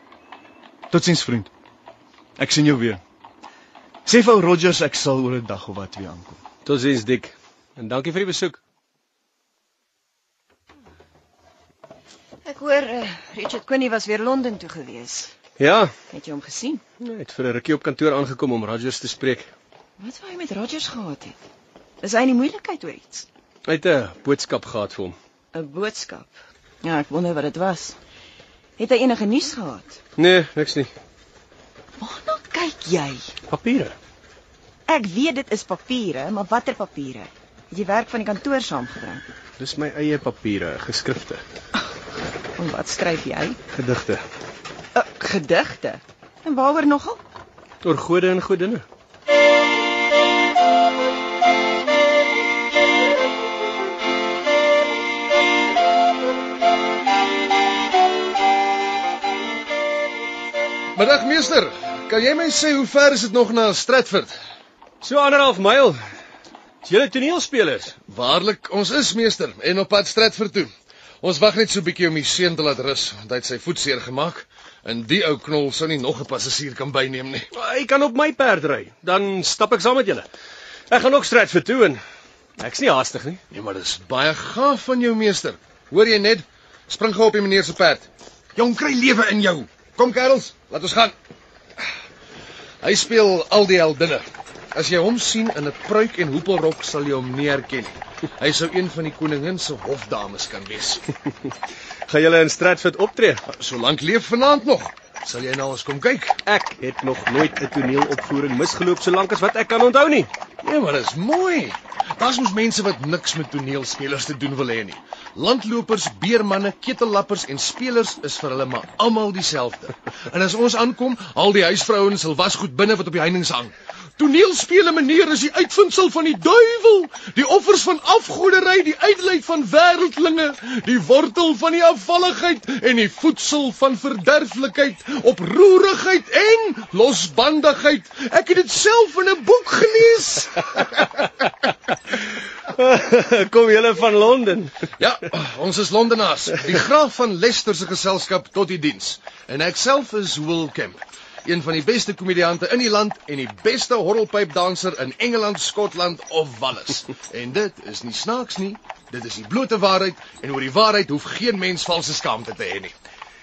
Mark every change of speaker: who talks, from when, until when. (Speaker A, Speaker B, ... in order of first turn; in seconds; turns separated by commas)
Speaker A: 0.9-1.5, Speaker A: 2.4-3.0, Speaker A: 4.1-6.4, Speaker B: 6.7-8.6, Speaker C: 12.4-15.3, Speaker B: 15.6-15.9, Speaker C: 16.1-16.8, Speaker B: 17.0-19.5, Speaker C: 20.0-21.4, Speaker C: 22.0-23.3, Speaker B: 23.7-25.2, Speaker C: 25.5-28.0, Speaker C: 28.8-30.0, Speaker B: 30.2-30.9, Speaker C: 32.0-33.3, Speaker B: 33.5-34.0, Speaker C: 34.9-39.3, Speaker B: 39.6-41.4, Speaker C: 42.6-43.6, Speaker B: 43.7-44.2, Speaker C: 45.0-47.2, Speaker B: 47.8-48.9, Speaker D: 61.0-64.4, Speaker B: 65.0-66.0, Speaker B: 66.8-68.0, Speaker D: 68.1-70.7, Speaker D: 71.2-77.5, Speaker B: 77.5-80.3, Speaker B: 80.9-82.0, Speaker B: 82.6-83.4, Speaker D: 83.5-91.2, Speaker D: 92.8-101.0, Speaker B: 102.1-103.5, Speaker D: 103.5-106.4, Speaker B: 106.5-110.3, Speaker D: 110.6-140.7, Speaker B: 142.7-144.7, Speaker D: 145.0-162.9